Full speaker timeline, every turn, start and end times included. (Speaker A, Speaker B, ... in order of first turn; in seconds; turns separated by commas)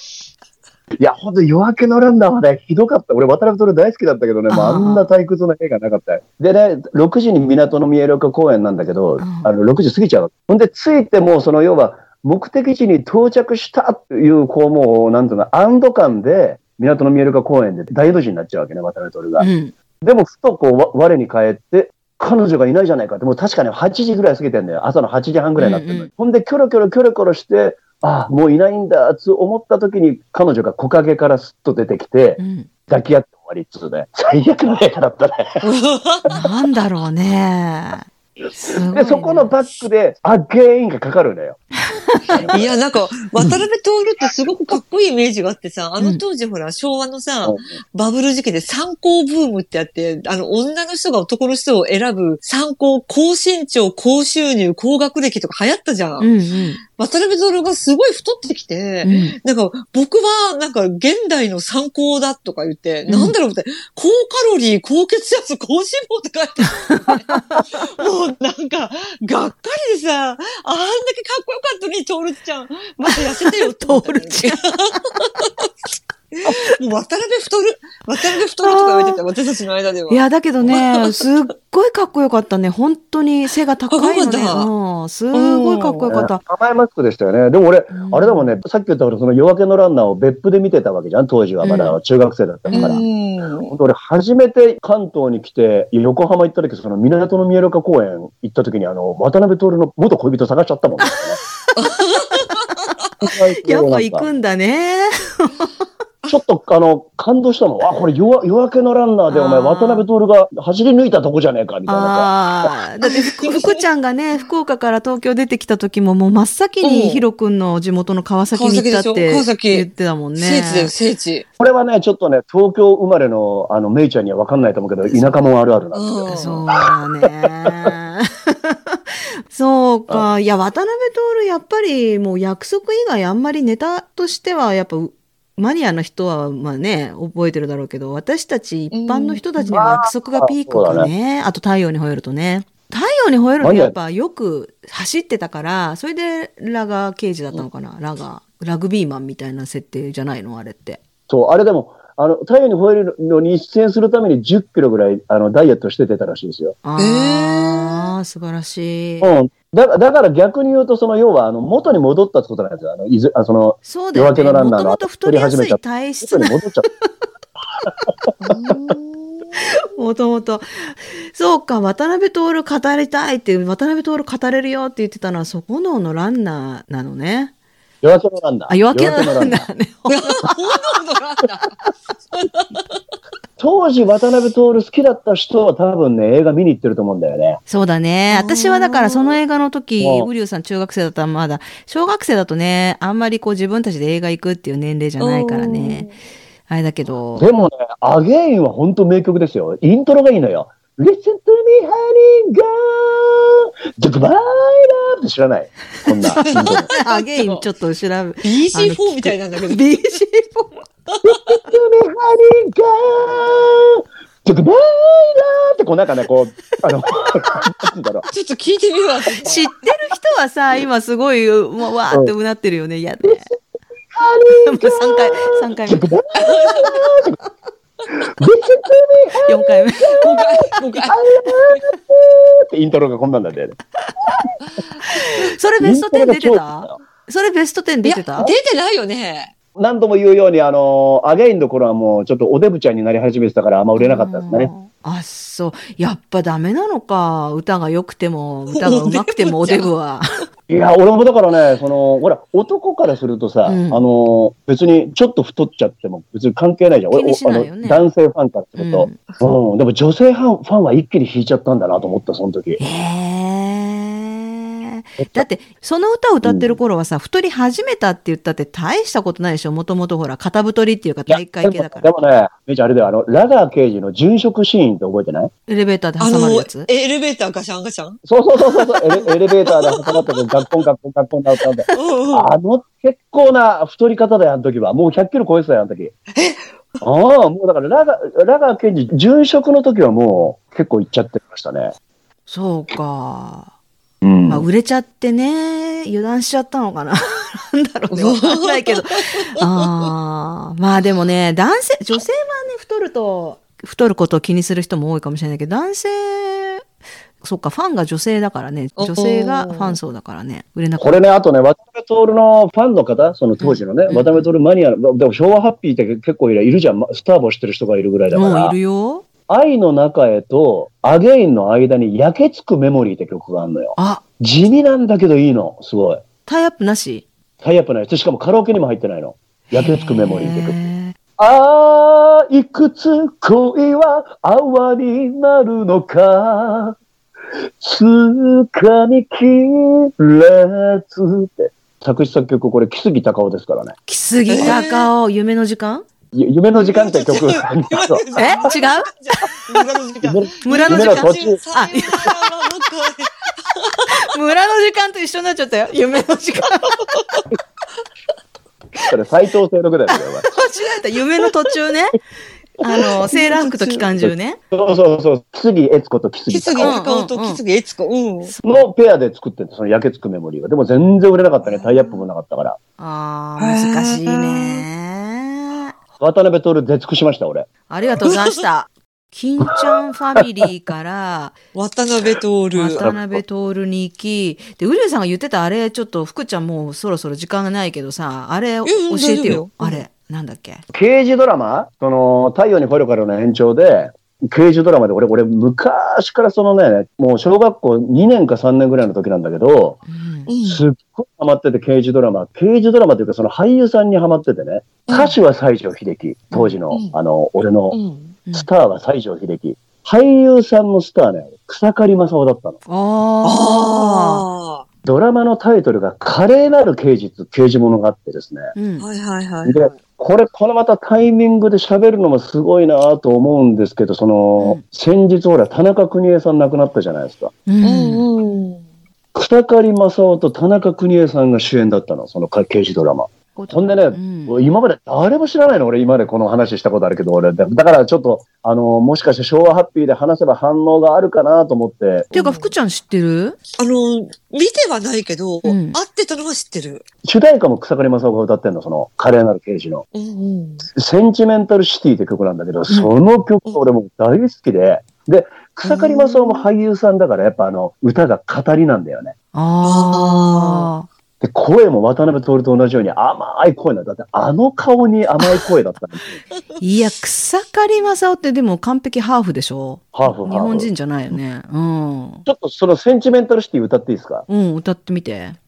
Speaker A: 1.0-19.5, Speaker B: 4.5-5.1, Speaker B: 9.2-9.5, Speaker B: 19.4-19.7, Speaker A: 20.0-35.6, Speaker B: 25.6-26.1, Speaker B: 32.4-32.7, Speaker C: 35.6-36.4, Speaker B: 36.3-39.5, Speaker A: 38.9-41.6, Speaker B: 41.9-42.4, Speaker A: 42.2-42.7, Speaker C: 42.5-56.3, Speaker B: 56.2-56.8, Speaker C: 56.9-75.5, Speaker B: 59.0-59.3, Speaker B: 63.1-63.3, Speaker B: 66.9-67.7, Speaker B: 73.1-74.6, Speaker C: 76.3-81.2, Speaker B: 78.6-79.2, Speaker B: 80.1-86.4, Speaker C: 83.9-84.7, Speaker C: 85.3-86.1, Speaker A: 86.1-93.0, Speaker B: 88.0-88.3, Speaker C: 91.6-91.9, Speaker B: 92.7-93.0, Speaker C: 92.7-93.7, Speaker A: 93.7-101.4, Speaker B: 101.7-102.9, Speaker C: 101.8-102.6, Speaker A: 103.2-104.3, Speaker B: 103.6-105.7, Speaker A: 106.3-112.3, Speaker B: 109.3-110.0, Speaker B: 111.8-120.9, Speaker C: 113.0-113.8, Speaker C: 116.8-117.2, Speaker C: 118.5-121.4, Speaker A: 121.6-126.9, Speaker C: 125.9-126.6, Speaker B: 126.3-151.0, Speaker C: 138.9-139.8, Speaker A: 139.7-141.1, Speaker A: 143.6-143.9, Speaker A: 151.3-156.8, Speaker B: 156.8-159.3, Speaker C: 157.0-158.1, Speaker A: 159.2-166.9, Speaker B: 163.8-167.1, Speaker A: 167.8-168.9, Speaker C: 168.4-169.8, Speaker B: 169.6-177.5, Speaker A: 178.0-179.7, Speaker B: 178.7-180.8, Speaker C: 180.1-183.0, Speaker A: 183.6-187.6, Speaker B: 187.7-196.1, Speaker C: 188.3-189.4, Speaker A: 190.0-190.3, Speaker C: 195.2-196.1, Speaker B: 196.7-197.5, Speaker A: 197.3-206.9, Speaker B: 206.2-210.8, Speaker C: 206.4-207.6, Speaker C: 208.4-210.1, Speaker C: 211.1-211.4, Speaker A: 211.2-218.2, Speaker C: 218.3-219.7, Speaker B: 219.4-223.5, Speaker A: 224.1-227.4, Speaker B: 224.5-226.1, Speaker C: 226.4-227.0, Speaker A: 228.2-234.5, Speaker B: 229.4-230.2, Speaker C: 230.1-231.8, Speaker B: 235.1-238.5, Speaker A: 235.8-237.0, Speaker C: 238.0-239.5, Speaker A: 239.7-244.7, Speaker B: 244.0-250.4, Speaker C: 248.7-249.9, Speaker A: 250.7-262.8, Speaker B: 253.7-254.1, Speaker B: 257.1-258.1, Speaker B: 258.8-259.2, Speaker B: 262.8-272.1, Speaker A: 265.2-265.4, Speaker A: 266.4-266.8, Speaker A: 271.3-275.5, Speaker B: 275.7-276.9, Speaker C: 276.2-280.8, Speaker A: 278.3-286.1, Speaker C: 281.9-282.5, Speaker C: 286.3-287.0, Speaker A: 287.0-291.9, Speaker B: 292.5-293.7, Speaker A: 294.2-294.6, Speaker B: 294.5-306.9, Speaker C: 298.1-300.1, Speaker B: 307.4-311.2, Speaker C: 309.0-310.0, Speaker A: 311.0-318.8, Speaker B: 313.6-314.5, Speaker B: 318.3-319.2, Speaker A: 319.5-326.2, Speaker B: 324.0-324.2, Speaker B: 326.4-327.2, Speaker A: 327.6-330.8, Speaker B: 329.7-331.1, Speaker A: 331.4-337.0, Speaker A: 337.8-343.9, Speaker B: 344.1-346.0, Speaker C: 344.5-345.1, Speaker A: 346.3-348.2, Speaker C: 346.7-354.1, Speaker B: 348.4-349.1, Speaker A: 350.2-351.6, Speaker B: 350.6-352.4, Speaker B: 354.1-357.1, Speaker C: 357.1-357.4, Speaker A: 359.0-360.4, Speaker B: 360.1-362.2, Speaker B: 362.8-364.6, Speaker C: 363.0-364.1, Speaker A: 364.2-367.0, Speaker C: 366.5-368.5, Speaker B: 366.8-367.6, Speaker B: 368.4-368.8, Speaker A: 368.6-372.8, Speaker C: 371.6-372.2, Speaker B: 373.0-375.9, Speaker C: 373.6-374.8, Speaker A: 376.2-377.7, Speaker B: 377.9-381.5, Speaker C: 378.3-378.6, Speaker C: 381.7-383.0, Speaker B: 382.7-390.8, Speaker A: 382.9-383.4, Speaker C: 388.9-390.0, Speaker A: 390.9-400.0, Speaker B: 400.1-400.5, Speaker C: 400.5-400.8, Speaker A: 400.6-408.0, Speaker C: 405.1-405.4, Speaker C: 406.9-407.1, Speaker C: 407.9-408.4, Speaker A: 408.5-412.8, Speaker B: 412.9-414.4, Speaker C: 413.4-414.8, Speaker A: 415.0-418.7, Speaker B: 418.8-419.1, Speaker C: 419.0-419.9, Speaker A: 419.6-427.5, Speaker B: 424.6-424.8, Speaker B: 427.7-428.2, Speaker C: 427.8-428.8, Speaker A: 429.3-442.3, Speaker B: 433.5-434.5, Speaker C: 442.3-442.7, Speaker B: 442.3-443.6, Speaker C: 443.8-447.0, Speaker B: 445.6-446.0, Speaker A: 447.2-450.0, Speaker C: 450.1-450.9, Speaker A: 450.9-459.3, Speaker C: 455.9-456.6, Speaker B: 459.5-461.1, Speaker C: 459.8-460.9, Speaker A: 461.4-466.2, Speaker C: 466.5-466.8, Speaker B: 466.8-472.4, Speaker A: 470.1-470.9, Speaker A: 472.4-474.4, Speaker B: 474.5-475.6